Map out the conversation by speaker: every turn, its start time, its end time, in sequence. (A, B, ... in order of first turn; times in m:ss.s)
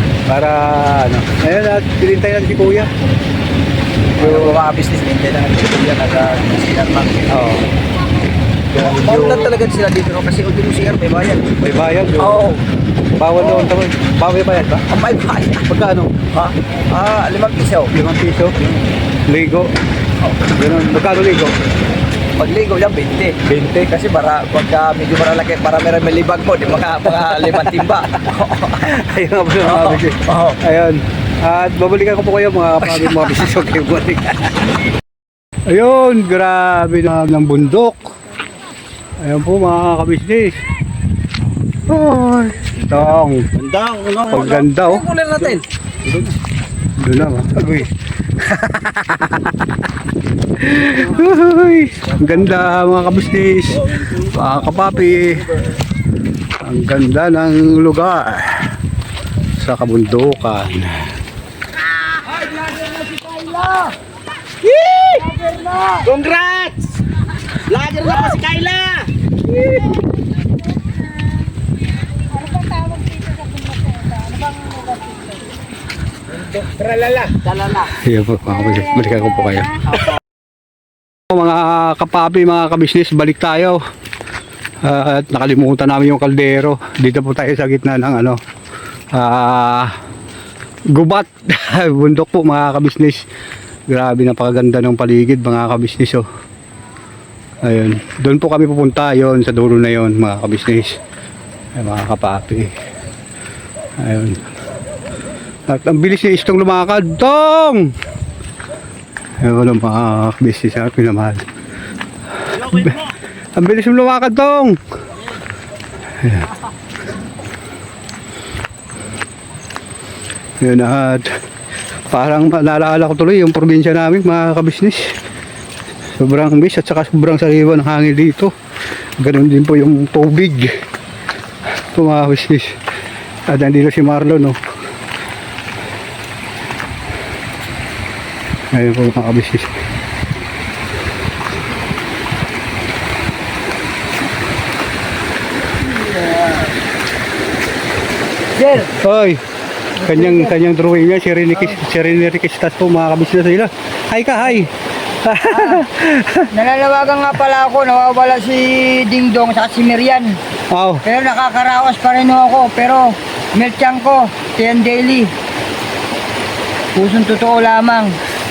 0:00.3-0:02.9 A
0:04.2-0:07.2 B
0:04.2-0:04.6 A
0:07.3-0:07.6 A
0:08.7-0:09.5 A
0:08.8-0:12.6 B
0:11.6-0:12.4 A
0:13.2-0:14.8 A
0:13.4-0:13.7 B
0:14.9-0:15.7 B
0:15.6-0:16.2 A
0:16.3-0:17.9 B
0:17.9-0:18.6 A
0:19.3-0:19.7 A
0:20.5-0:21.6 A
0:22.4-0:28.9 B
0:23.4-0:23.9 A
0:28.8-0:34.5 A
0:29.6-0:30.6 B
0:32.9-0:33.5 B
0:35.7-0:38.0 A
0:39.2-0:40.6 A
0:41.9-0:43.5 A
0:44.0-0:45.6 B
0:44.3-0:45.0 A
0:47.0-0:49.6 A
0:50.6-0:55.4 A
0:56.6-0:58.7 A
0:59.6-1:01.1 A
1:04.6-1:05.3 B
1:07.8-1:08.6 B
1:17.9-1:19.8 A
1:21.3-1:23.8 A
1:24.8-1:28.4 A
1:29.1-1:29.9 A
1:30.9-1:33.2 A
1:33.9-1:36.2 A
1:37.6-1:41.0 A
1:41.8-1:42.7 A
1:44.0-1:44.4 A
1:45.7-1:47.9 A
1:49.4-1:51.4 A
1:52.5-1:53.0 A
1:53.6-1:54.8 A
1:56.2-1:56.5 A
2:00.6-2:01.4 A
2:02.1-2:05.1 A
2:06.2-2:08.5 A
2:09.2-2:10.7 A
2:11.9-2:12.7 A
2:13.5-2:14.6 A
2:18.7-2:19.7 A
2:28.6-2:28.9 C
2:29.0-2:29.4 A
2:30.0-2:30.5 C
2:30.0-2:34.7 A
2:35.2-2:36.5 A
2:35.5-2:35.8 C
2:36.5-2:40.4 C
2:40.7-2:41.0 A
2:41.0-2:45.3 C
2:47.0-2:48.2 C